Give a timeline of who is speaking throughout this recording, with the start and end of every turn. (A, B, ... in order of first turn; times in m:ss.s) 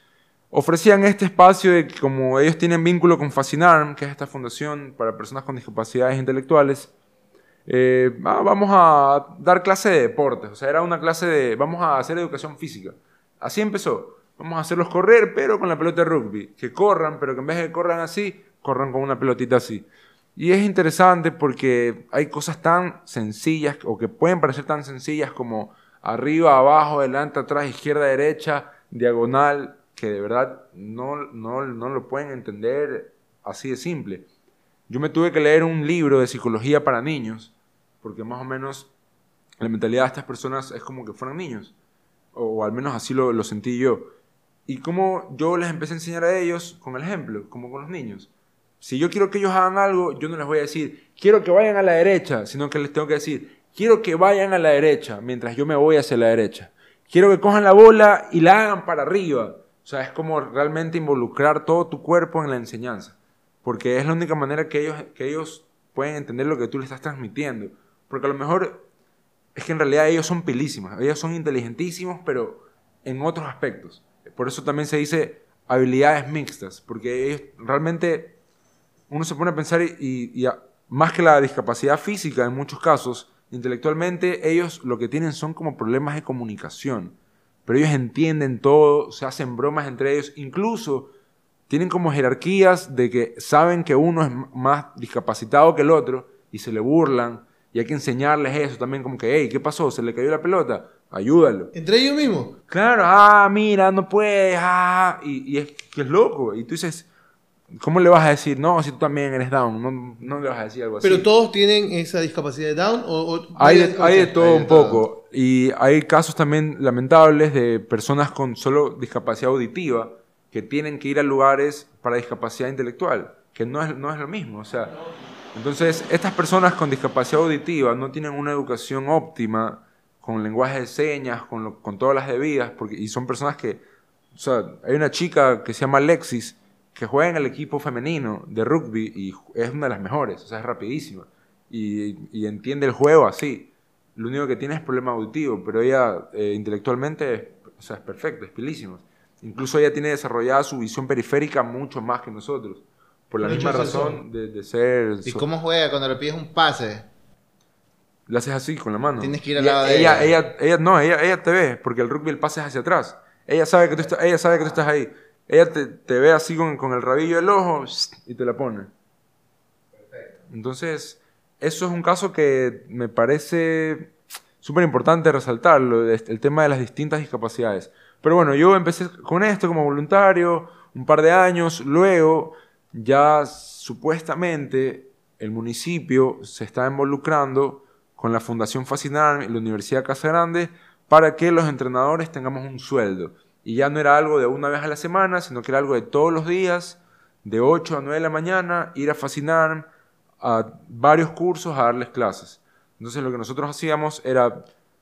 0:00.5-0:06.9 A
0:07.7-0:19.8 A
0:20.4-0:34.3 A
0:34.9-0:38.9 A
0:39.6-0:41.7 A
0:42.3-0:44.1 A
0:44.7-0:48.3 A
0:48.8-1:08.8 A
1:09.6-1:18.4 A
1:19.1-1:31.1 A
1:31.7-1:41.7 A
1:41.7-1:42.6 B
1:42.7-1:47.1 A
1:47.8-1:51.3 A
1:51.0-1:54.4 B
1:53.6-2:05.0 A
1:54.4-1:55.1 C
2:05.5-2:13.8 A
2:14.4-2:35.5 A
2:33.4-2:34.2 B
2:35.2-2:37.1 C
2:38.3-2:48.9 A
2:39.2-2:40.4 C
2:50.5-3:19.9 A
3:20.4-3:24.6 A